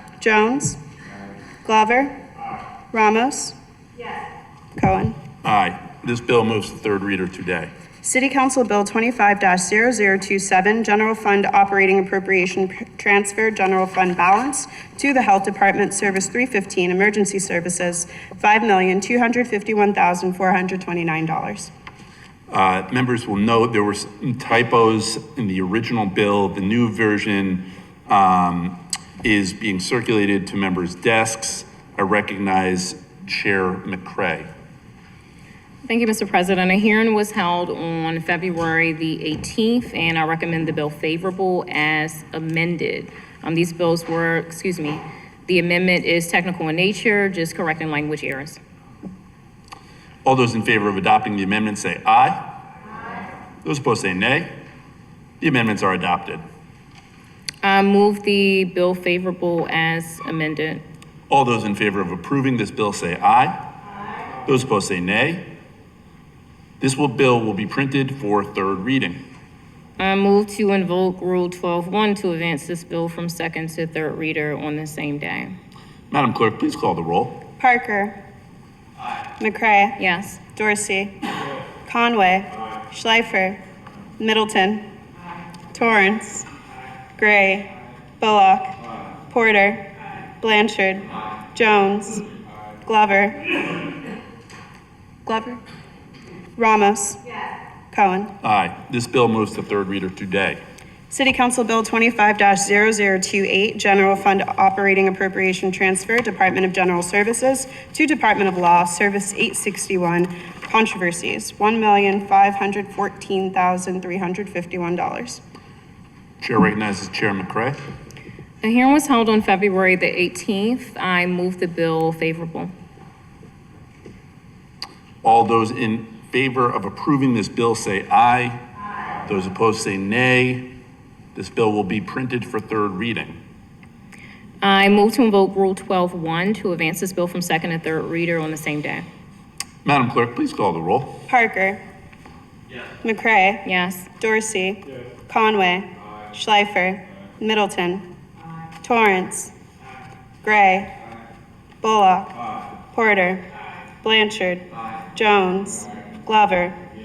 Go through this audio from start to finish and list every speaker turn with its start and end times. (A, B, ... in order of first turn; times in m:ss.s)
0:00.2-0:00.8 A
0:01.6-0:02.1 A
0:02.9-0:03.5 A
0:04.8-0:05.2 A
0:05.4-0:07.7 B
0:08.0-0:21.7 A
0:22.5-0:34.5 B
0:35.8-0:48.6 C
0:50.2-0:52.4 B
0:53.6-0:54.5 B
0:55.4-0:56.4 B
0:57.6-1:00.8 C
1:01.3-1:03.6 B
1:04.4-1:05.4 B
1:06.8-1:09.2 B
1:10.0-1:15.5 C
1:16.1-1:17.4 B
1:17.6-1:18.2 A
1:19.4-1:20.0 A
1:20.0-1:20.4 C
1:20.5-1:21.1 A
1:21.8-1:23.6 A
1:24.2-1:24.8 A
1:25.7-1:26.4 A
1:27.2-1:27.7 A
1:28.2-1:28.7 A
1:29.3-1:29.9 A
1:30.4-1:32.2 A
1:32.8-1:33.6 A
1:35.2-1:35.6 A
1:36.6-1:37.2 A
1:37.9-1:38.3 A
1:38.4-1:40.6 B
1:41.1-1:55.4 A
1:56.4-1:57.8 B
1:58.6-2:02.7 C
2:05.2-2:08.6 B
2:09.2-2:10.7 B
2:11.3-2:13.4 B
2:14.6-2:19.0 C
2:19.8-2:21.1 B
2:21.3-2:21.8 A
2:23.0-2:23.6 A
2:23.6-2:24.1 C
2:24.2-2:28.0 A
2:28.8-2:29.5 A
2:30.4-2:30.9 A
2:31.8-2:32.3 A
2:32.9-2:33.4 A
2:34.0-2:36.8 A